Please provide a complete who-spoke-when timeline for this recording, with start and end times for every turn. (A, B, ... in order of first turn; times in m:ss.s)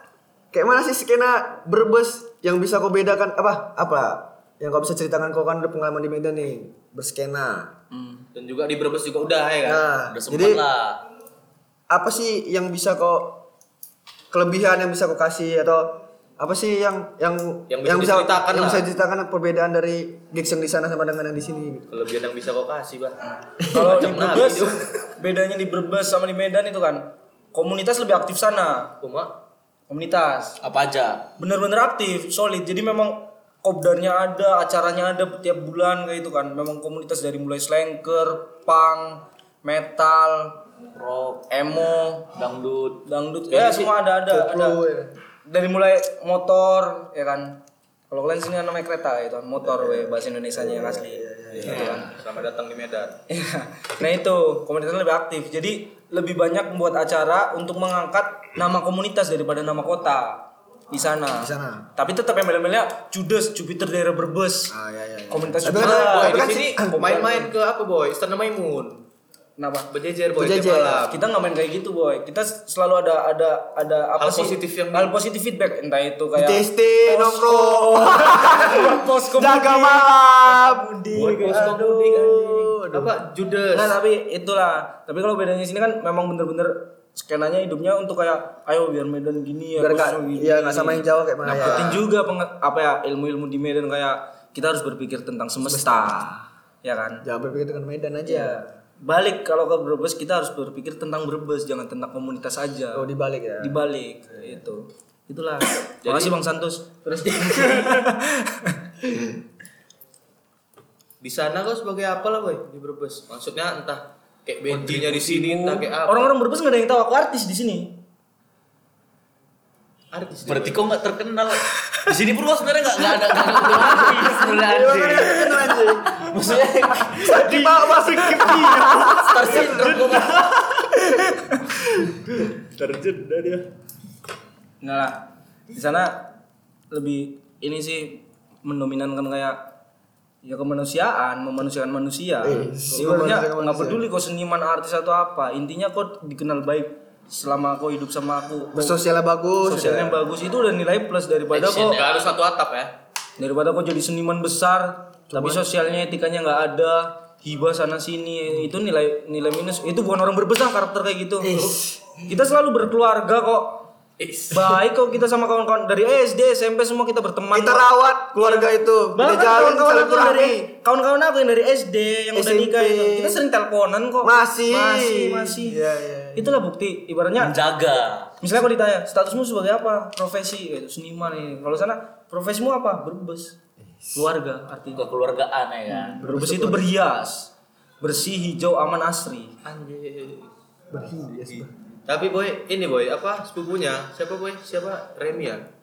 0:00.5-0:07.7 A
0:07.9-0:08.2 B
0:08.3-0:09.8 C
0:09.6-0:10.6 A
0:10.1-0:11.0 D
0:11.9-0:13.4 A
0:14.3-0:21.8 A
0:17.7-0:18.8 C
0:21.9-0:24.9 C
0:23.7-0:28.9 B
0:29.0-0:29.3 C
0:29.9-0:30.6 B
0:30.6-0:31.2 D
0:31.4-0:40.6 B
0:40.9-0:41.5 D
0:41.5-0:42.2 B
0:42.3-0:43.9 D
0:43.0-0:44.8 B
0:44.3-0:45.1 A
0:45.5-0:47.6 B
0:48.1-0:52.1 B
0:49.6-0:52.0 A
0:51.6-0:53.2 C
0:53.3-1:04.7 B
1:01.4-1:01.9 A
1:04.7-1:07.3 A
1:05.3-1:07.5 B
1:05.7-1:09.0 C
1:09.6-1:09.9 B
1:09.9-1:11.2 C
1:10.3-1:11.1 A
1:11.1-1:22.3 B
1:14.2-1:15.1 C
1:16.3-1:20.9 A
1:21.1-1:24.0 C
1:21.4-1:23.1 A
1:23.7-1:36.3 B
1:29.8-1:32.0 A
1:31.5-1:32.0 C
1:35.6-1:36.4 A
1:36.8-1:37.2 B
1:37.2-1:38.7 A
1:38.3-1:43.1 B
1:42.9-1:43.8 A
1:43.6-1:48.8 B
1:46.0-1:46.3 C
1:51.2-1:56.3 C
1:54.7-1:55.9 D
1:56.0-1:57.9 B
2:00.1-2:00.8 C
2:00.4-2:05.6 D
2:04.6-2:06.1 A
2:06.2-2:07.4 D
2:07.2-2:10.0 A
2:07.3-2:10.8 E
2:09.1-2:10.5 D
2:12.0-2:13.6 E
2:14.8-2:16.3 B
2:16.9-2:19.6 B
2:20.4-2:29.0 B
2:22.4-2:24.0 A
2:28.7-2:30.2 A
2:29.6-2:32.0 B
2:31.5-2:32.2 D
2:31.8-2:32.9 C
2:33.4-2:41.7 B
2:35.3-2:35.6 A
2:41.4-2:42.2 A
2:42.2-2:43.8 B
2:44.5-2:47.8 B
2:47.5-2:50.7 A
2:48.3-2:55.8 B
2:52.3-2:53.4 A
2:54.2-2:56.5 A
2:56.4-2:57.5 B
2:57.4-2:58.3 D
2:58.4-3:03.6 B
3:04.1-3:05.1 B
3:04.9-3:06.2 D
3:05.9-3:09.5 B
3:06.2-3:06.9 A
3:09.6-3:10.5 C
3:10.9-3:11.7 A
3:11.4-3:15.6 C